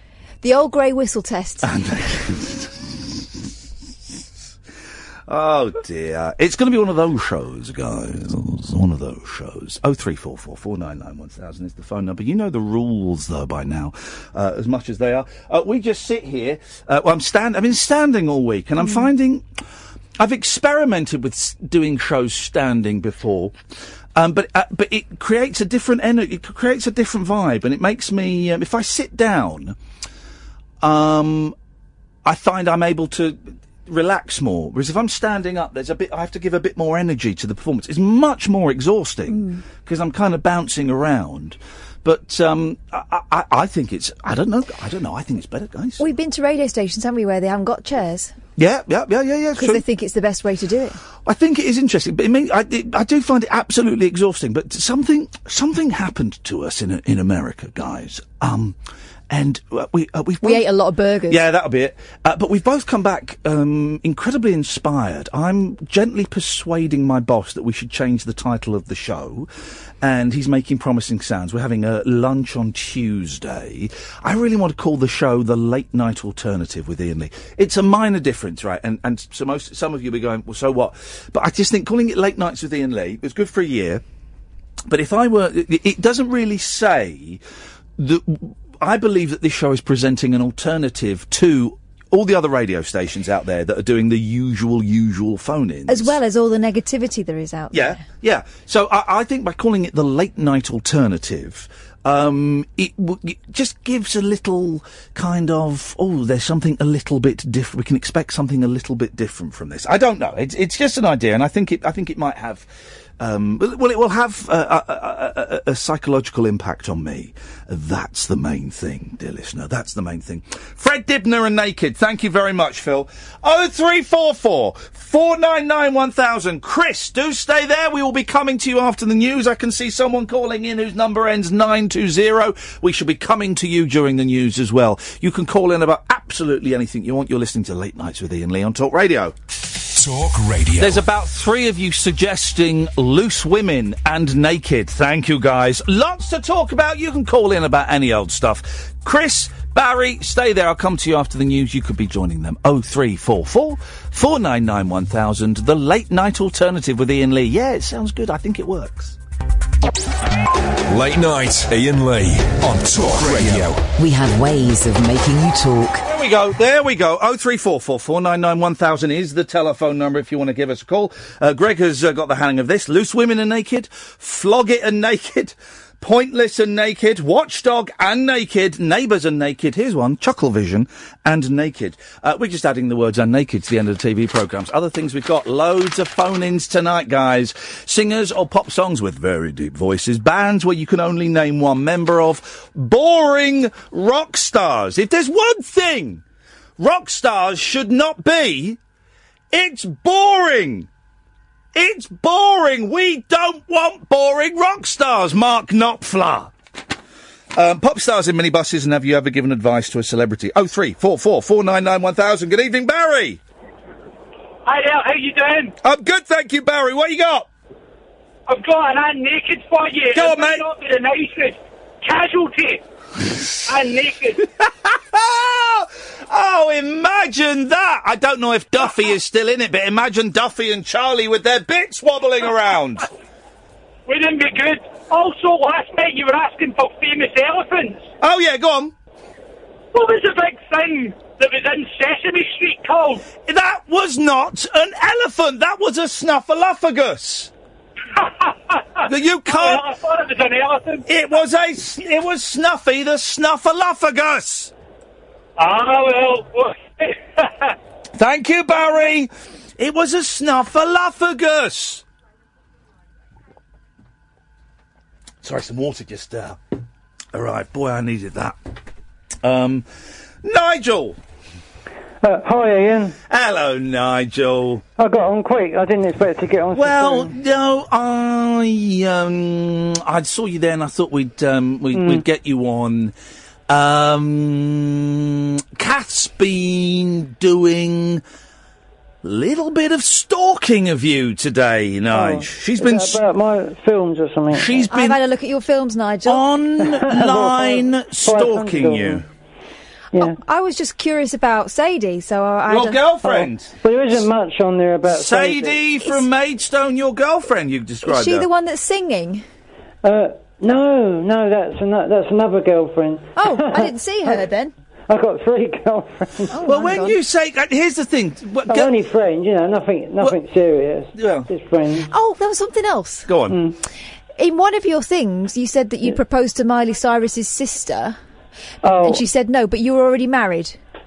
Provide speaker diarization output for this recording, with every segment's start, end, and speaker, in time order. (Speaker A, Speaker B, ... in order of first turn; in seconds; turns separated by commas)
Speaker A: 0.4-1.7, Speaker B: 1.6-3.1, Speaker B: 5.3-19.4, Speaker B: 20.2-23.6, Speaker B: 24.2-29.8, Speaker B: 30.8-31.6, Speaker B: 32.2-46.0, Speaker A: 39.3-39.6, Speaker A: 46.0-48.3, Speaker B: 48.6-49.8, Speaker A: 49.6-51.0, Speaker B: 51.2-58.8, Speaker B: 59.3-60.6, Speaker A: 60.4-61.4, Speaker B: 61.3-69.5, Speaker B: 70.0-84.0, Speaker B: 84.9-87.4, Speaker B: 88.0-96.2, Speaker A: 95.9-98.0, Speaker B: 97.7-112.7, Speaker B: 113.2-139.3, Speaker C: 139.9-141.1, Speaker B: 140.8-159.2, Speaker C: 160.9-163.8, Speaker D: 164.0-166.0, Speaker B: 166.1-196.2, Speaker B: 196.8-198.8, Speaker B: 199.5-200.9, Speaker B: 201.8-206.5, Speaker B: 207.5-213.4, Speaker E: 214.7-215.7, Speaker B: 215.8-217.5, Speaker E: 218.5-222.8, Speaker B: 220.1-220.6, Speaker E: 223.7-224.4, Speaker B: 225.1-233.1, Speaker E: 234.1-238.1, Speaker B: 238.2-238.9, Speaker E: 239.9-243.2, Speaker B: 243.4-247.5, Speaker E: 248.2-251.1, Speaker B: 249.1-249.9, Speaker B: 251.1-254.7, Speaker E: 255.6-257.7, Speaker B: 258.2-262.0, Speaker B: 265.4-266.6, Speaker B: 267.3-268.6, Speaker B: 269.4-269.9, Speaker B: 270.4-271.2, Speaker F: 272.2-273.1, Speaker B: 273.3-274.8, Speaker F: 275.0-277.3, Speaker B: 276.7-283.1, Speaker F: 281.9-282.2, Speaker B: 283.7-288.2, Speaker B: 289.2-293.2, Speaker F: 292.1-294.9, Speaker B: 294.5-295.2, Speaker A: 294.9-296.4, Speaker B: 296.3-299.2, Speaker F: 296.8-299.2, Speaker A: 300.2-303.0, Speaker B: 302.7-304.2, Speaker F: 303.2-305.9, Speaker B: 305.1-308.5, Speaker A: 308.1-309.4, Speaker F: 310.0-314.4, Speaker A: 313.4-314.7, Speaker F: 315.1-316.6, Speaker A: 316.5-317.1, Speaker B: 316.7-318.9, Speaker F: 318.7-322.1, Speaker B: 321.2-321.5, Speaker A: 322.1-323.3, Speaker B: 323.3-323.6, Speaker F: 323.5-323.8, Speaker A: 324.4-328.2, Speaker F: 328.8-329.2, Speaker A: 329.0-330.8